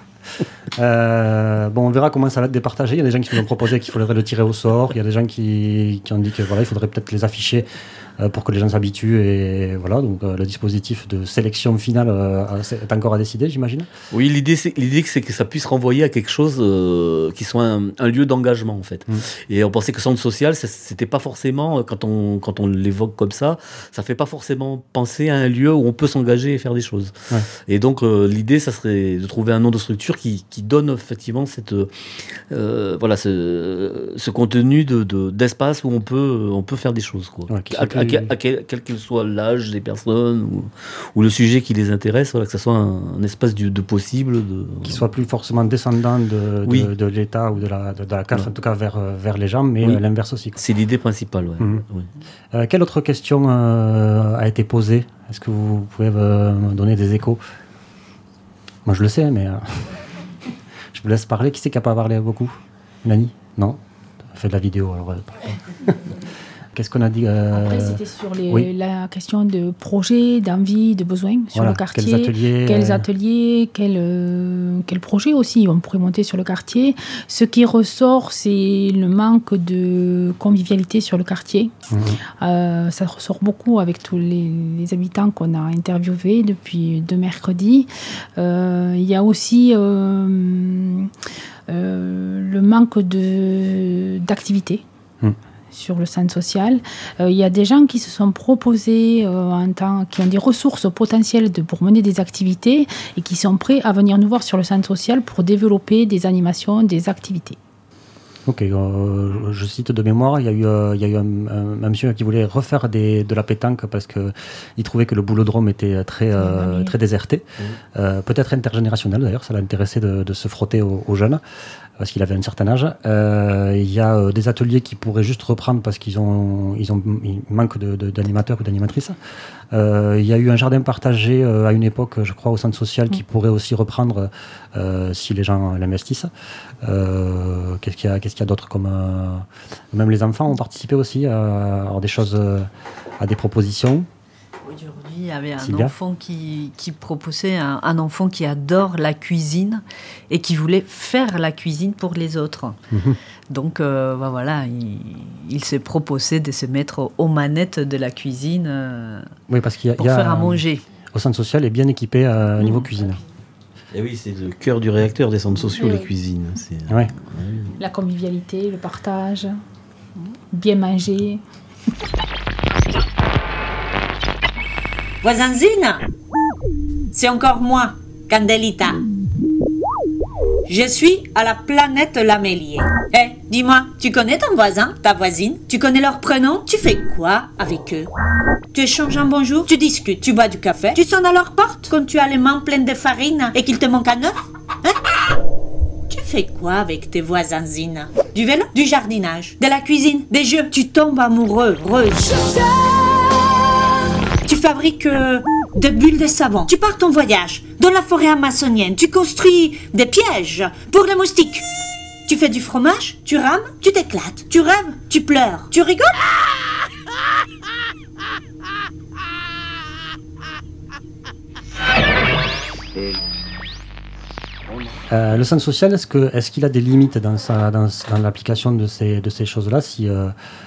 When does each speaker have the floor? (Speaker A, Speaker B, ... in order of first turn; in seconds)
Speaker A: 0.4-13.9, 37.5-38.3, 44.8-50.6, 51.6-51.8, 52.5-57.4, 58.9-60.0, 60.9-63.8, 64.3-66.1, 66.7-68.7, 71.5-73.0, 81.9-82.2, 108.5-121.4, 122.0-129.2, 129.7-136.3, 136.8-144.1, 145.6-145.9, 152.9-153.2, 159.5-160.6, 161.1-163.2, 225.1-230.3
Speaker B: 14.1-27.1, 27.7-31.9, 32.5-45.0, 50.5-52.1, 163.9-167.8
Speaker C: 67.5-81.7, 82.4-91.1, 91.7-94.8, 95.7-107.6, 116.4-116.9, 167.8-169.6, 170.5-171.4
Speaker D: 144.6-152.8, 153.5-159.3, 160.0-160.8
Speaker E: 175.2-176.1, 177.1-179.0, 180.7-188.1, 188.7-195.3, 196.1-203.2, 204.4-211.6, 212.2-216.4